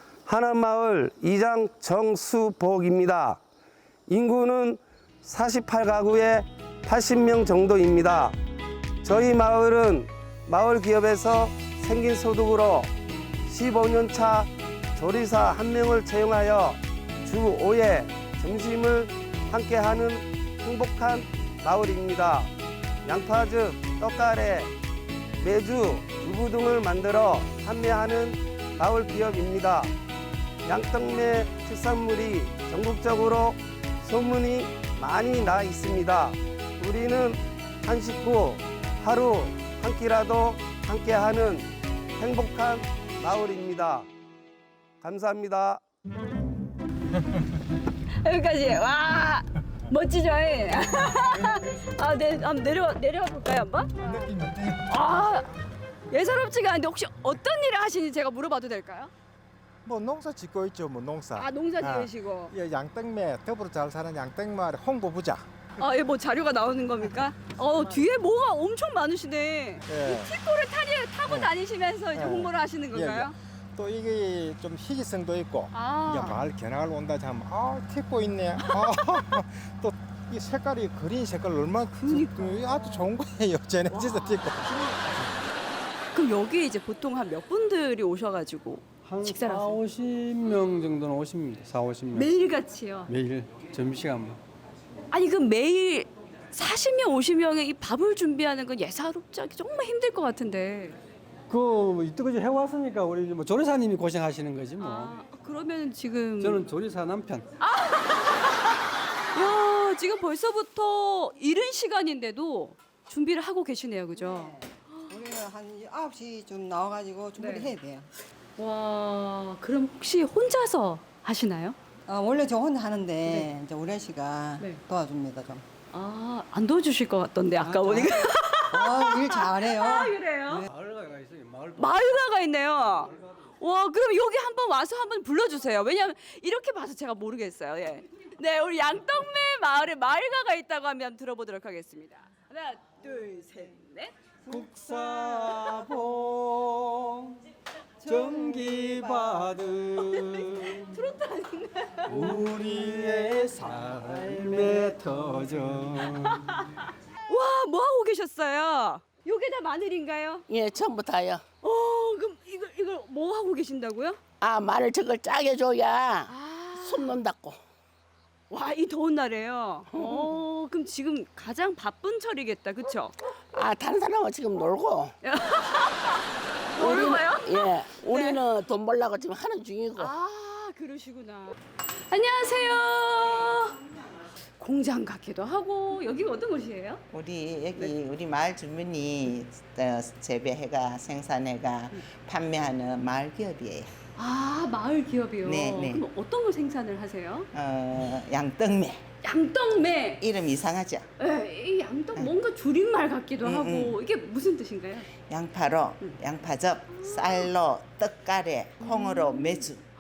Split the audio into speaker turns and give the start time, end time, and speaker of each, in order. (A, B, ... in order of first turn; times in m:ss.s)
0:00.2-0:03.4 A
0:04.1-0:08.4 A
0:09.0-0:12.9 A
0:13.5-0:22.5 A
0:23.0-0:24.7 A
0:25.4-0:29.9 A
0:30.7-0:44.1 A
0:45.0-0:45.8 A
0:48.2-0:54.3 B
0:54.0-0:55.1 C
0:54.8-0:55.5 B
0:56.1-0:59.1 B
0:59.8-1:05.4 C
1:01.3-1:02.5 B
1:05.8-1:13.3 B
1:09.9-1:10.3 C
1:11.3-1:11.5 C
1:12.1-1:24.8 C
1:15.7-1:16.4 B
1:18.6-1:18.9 B
1:21.9-1:23.1 B
1:23.9-1:24.5 B
1:26.1-1:29.8 B
1:29.1-1:32.3 D
1:32.1-1:33.1 B
1:33.1-1:34.4 D
1:35.1-1:41.0 B
1:41.5-1:45.1 D
1:44.8-1:46.6 B
1:46.4-1:47.4 D
1:47.6-1:48.5 B
1:49.3-1:55.1 B
1:54.2-1:58.1 E
1:57.4-1:57.7 B
1:58.6-2:01.8 B
2:02.1-2:05.6 E
2:03.2-2:03.5 B
2:05.9-2:10.7 B
2:07.6-2:10.7 E
2:10.7-2:11.8 D
2:11.8-2:24.1 B
2:24.5-2:27.2 D
2:28.0-2:30.8 D
2:30.0-2:32.4 B
2:32.1-2:36.3 D
2:36.3-2:36.6 B
2:37.3-2:40.4 B
2:40.5-2:41.4 F
2:41.6-2:44.2 B
2:44.4-2:47.6 F
2:46.3-2:47.2 B
2:48.5-2:53.1 B
2:49.9-2:50.3 F
2:53.5-2:55.1 F
2:55.2-2:56.2 B
2:56.8-2:58.4 B
2:56.8-3:00.1 F
3:00.0-3:01.5 B
3:02.1-3:03.8 B
3:04.6-3:07.0 B
3:07.1-3:13.9 G
3:14.2-3:17.5 B
3:15.4-3:16.0 G
3:17.5-3:19.0 G
3:19.2-3:20.2 B
3:20.2-3:21.1 G
3:21.2-3:25.1 B
3:23.4-3:24.0 G
3:25.3-3:29.8 G
3:28.8-3:29.5 B